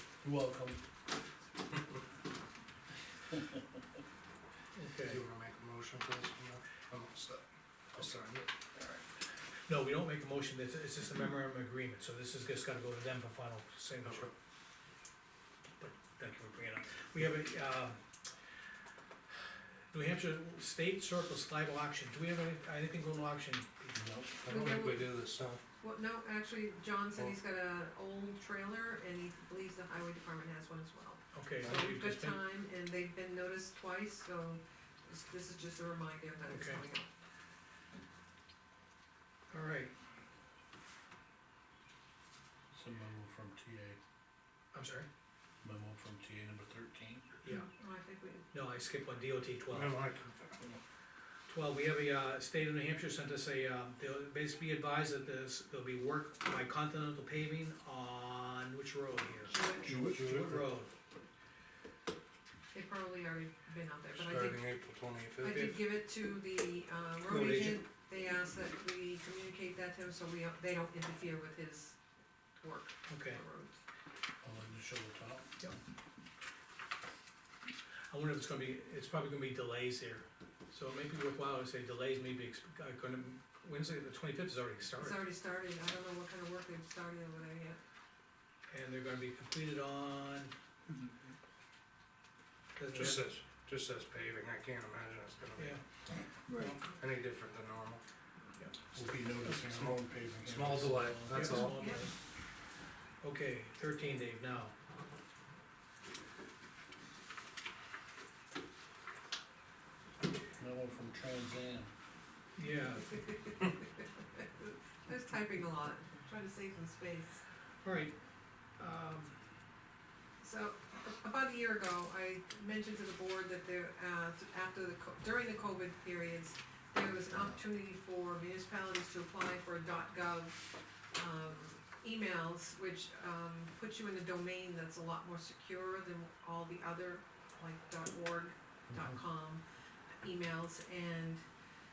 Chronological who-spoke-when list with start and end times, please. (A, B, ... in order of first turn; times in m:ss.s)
0:00.2-0:00.8 A
0:04.8-0:05.2 B
0:05.1-0:08.5 C
0:09.7-0:14.3 B
0:14.0-0:14.3 C
0:15.8-0:18.0 B
0:19.9-0:24.0 B
0:23.9-0:24.3 A
0:24.4-0:25.6 C
0:24.4-0:25.1 D
0:25.8-0:37.1 D
0:31.3-0:32.4 B
0:36.5-0:36.8 B
0:39.5-0:39.9 B
0:42.7-0:44.0 A
0:44.7-0:45.1 B
0:45.6-0:47.2 A
0:47.4-0:47.7 B
0:47.5-0:48.5 D
0:48.5-0:50.0 B
0:49.7-0:50.8 C
0:51.5-0:59.6 B
0:59.4-0:59.9 D
0:59.8-1:00.6 A
0:59.8-1:00.5 C
1:00.1-1:00.9 B
1:02.7-1:04.6 D
1:04.2-1:05.7 C
1:05.4-1:12.0 D
1:07.2-1:07.8 B
1:12.6-1:13.8 D
1:13.1-1:13.4 B
1:14.4-1:15.4 A
1:18.1-1:25.2 B
1:25.0-1:27.8 D
1:28.7-1:30.5 B
1:32.8-1:33.2 B
1:32.9-1:35.8 C
1:36.5-1:36.7 B
1:36.6-1:38.0 C
1:38.9-1:41.7 A
1:39.5-1:42.0 C
1:41.3-1:42.1 B
1:41.5-1:42.0 D
1:43.2-1:44.7 B
1:50.6-1:51.9 A
1:52.6-1:53.2 B
1:53.1-1:57.4 D
1:57.8-1:58.1 B
1:58.8-1:59.4 B
2:00.4-2:10.6 D
2:11.1-2:19.6 D
2:20.2-2:21.4 D